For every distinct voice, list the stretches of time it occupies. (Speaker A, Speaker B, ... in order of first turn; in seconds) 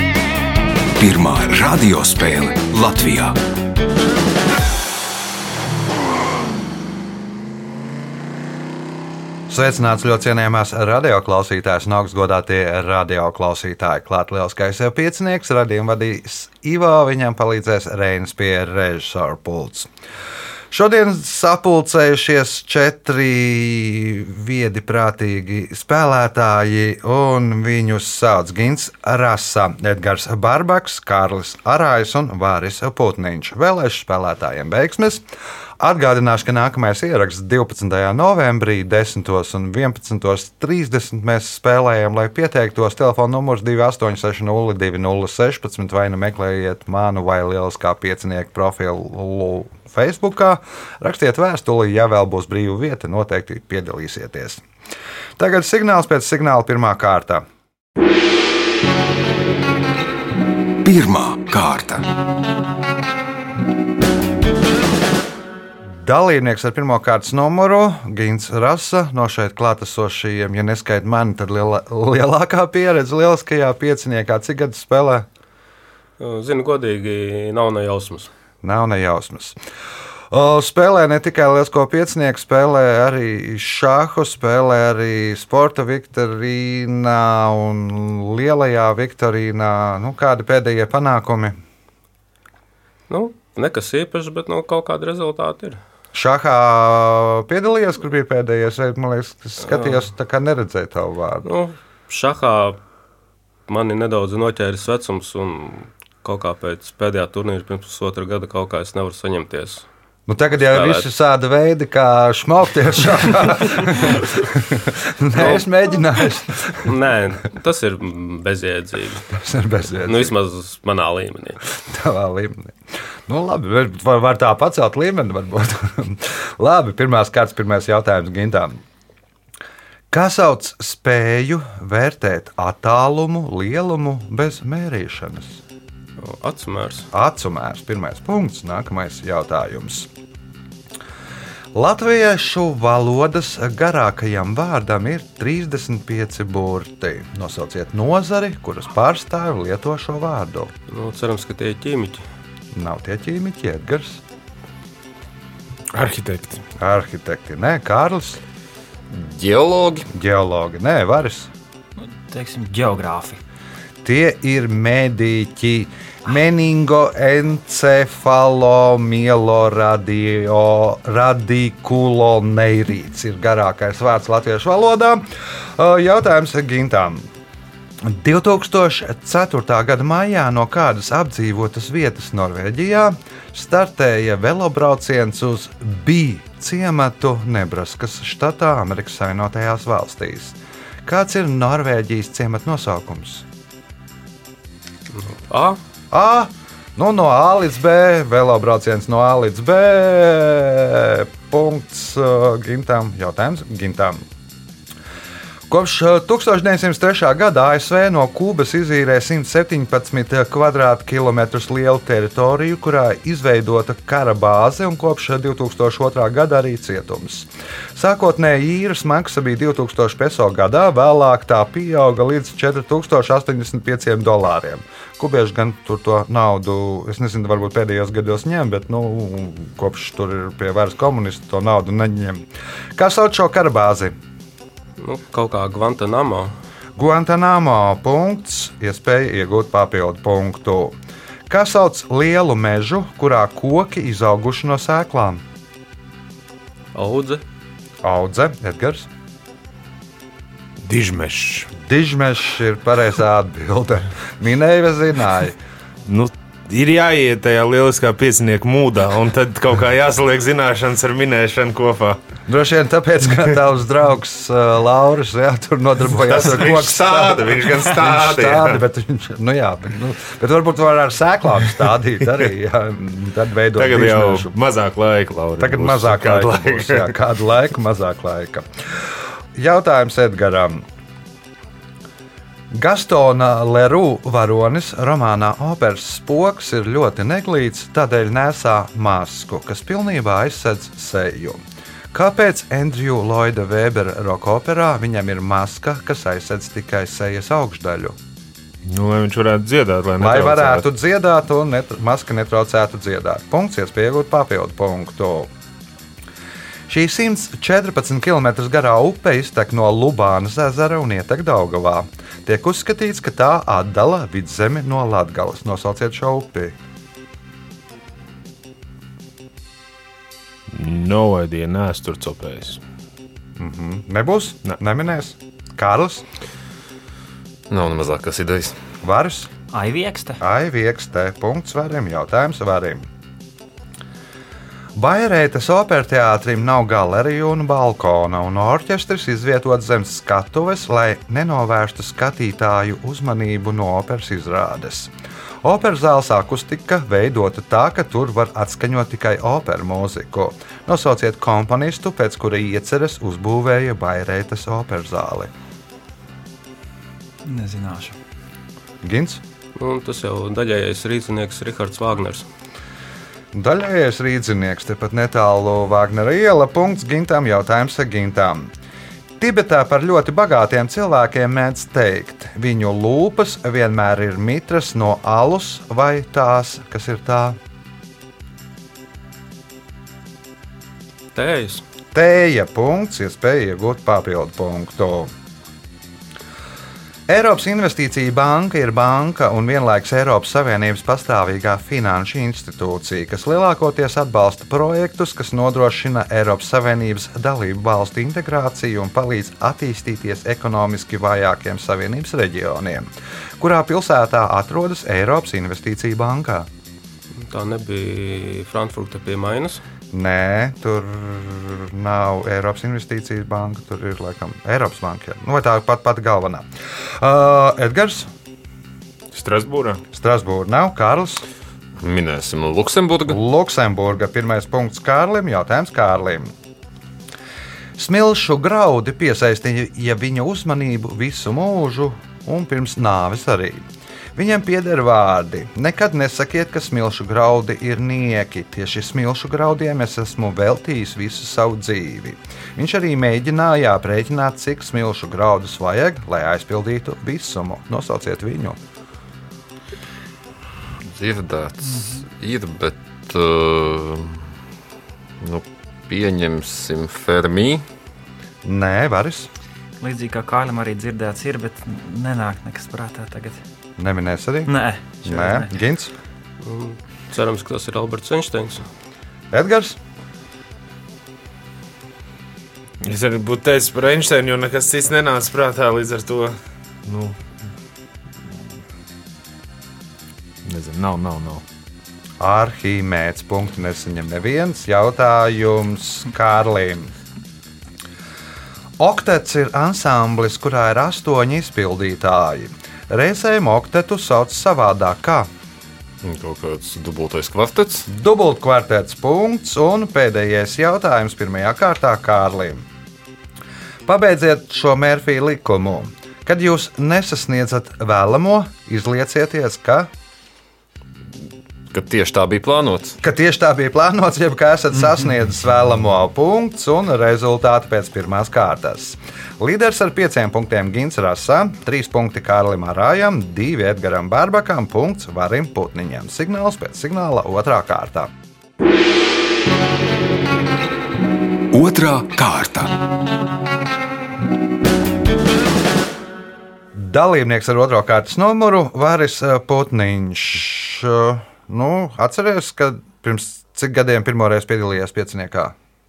Speaker A: 0.9-3.4, 60.8-62.0, 531.7-532.9
Speaker B: 9.5-19.9, 20.7-35.2, 35.8-54.6, 55.4-57.5, 66.0-75.3, 78.6-79.6, 80.3-91.5, 96.1-101.5, 110.3-116.9, 119.3-120.3, 121.8-128.8, 130.1-135.6, 137.1-140.1, 141.7-150.7, 152.7-154.2, 156.8-158.4, 160.1-161.5, 164.0-177.2, 178.0-193.4, 196.1-204.2, 205.7-232.4, 232.9-234.1, 236.9-241.0, 241.5-245.4, 248.0-249.1, 251.8-255.6, 262.5-274.5, 275.6-278.7, 279.5-280.8, 282.7-291.6, 292.1-298.2, 300.2-305.5, 306.9-316.7, 323.6-326.2, 329.0-329.5, 330.4-333.1, 334.9-345.1, 345.6-355.5, 359.0-359.4, 363.5-368.7, 369.4-377.6, 382.1-385.3, 387.3-406.7, 410.1-418.3, 420.1-421.4, 423.3-426.5, 428.0-433.8, 434.4-448.8, 458.6-459.5, 464.0-466.1, 469.5-470.0, 482.4-487.1, 489.0-495.5, 498.1-502.8, 504.1-510.1, 513.2-528.3, 536.9-545.7
Speaker C: 76.2-78.3, 93.1-95.8, 99.6-100.0, 101.4-102.8, 103.7-109.9, 110.5-111.0, 115.3-115.6, 116.8-119.3, 120.1-121.6, 136.2-137.1, 150.9-152.2, 195.1-195.8, 235.0-236.5, 246.9-247.4, 359.8-362.5, 381.3-381.8, 407.3-409.8, 466.6-468.9
Speaker D: 155.9-156.6, 250.8-251.7, 256.1-262.2, 266.2-268.8, 273.7-277.1, 298.8-300.9, 320.7-322.8, 419.3-420.0, 473.0-477.4, 480.6-481.6
Speaker E: 159.1-160.1, 327.7-328.8, 422.0-423.4, 451.0-454.5, 455.4-457.8, 496.2-498.1, 511.9-513.2
Speaker F: 162.0-163.4, 329.7-330.4, 357.4-358.1, 460.0-463.6, 464.7-465.7